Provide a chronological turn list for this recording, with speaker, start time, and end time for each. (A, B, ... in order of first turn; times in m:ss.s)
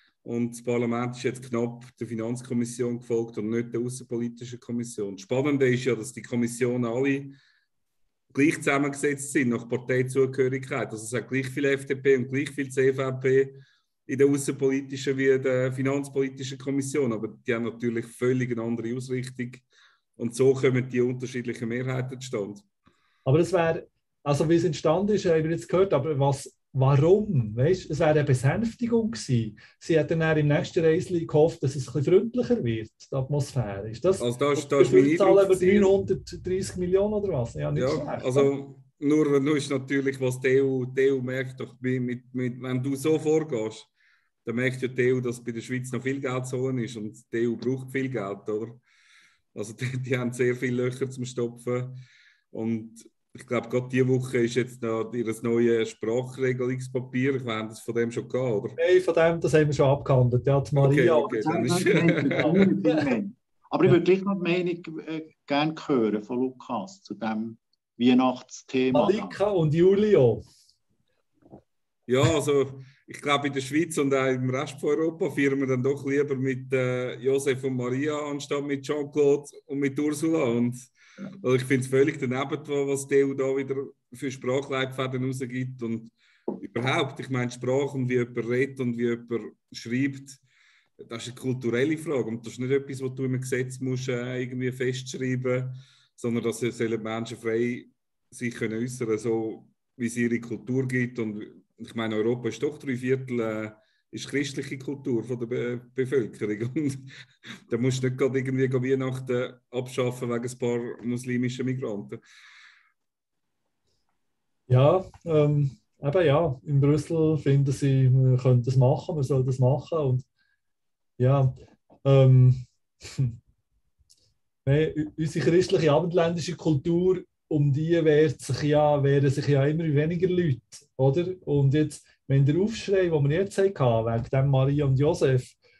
0:00.2-0:07.4 A
0:08.3-0:19.6 A
0:20.2-0:22.6 A
0:23.2-0:38.5 B
0:34.2-0:35.9 A
0:37.7-0:43.9 A
0:44.4-0:48.8 A
0:49.5-0:52.0 A
0:52.5-0:58.8 A
0:58.8-1:03.0 B
1:00.8-1:02.7 A
1:01.2-1:09.4 C
1:08.9-1:10.4 B
1:12.1-1:20.9 A
1:21.4-1:30.4 A
1:31.0-1:47.1 A
1:47.7-1:52.2 A
1:54.7-2:00.2 B
2:01.2-2:01.5 B
2:02.0-2:03.3 B
2:04.6-2:15.6 B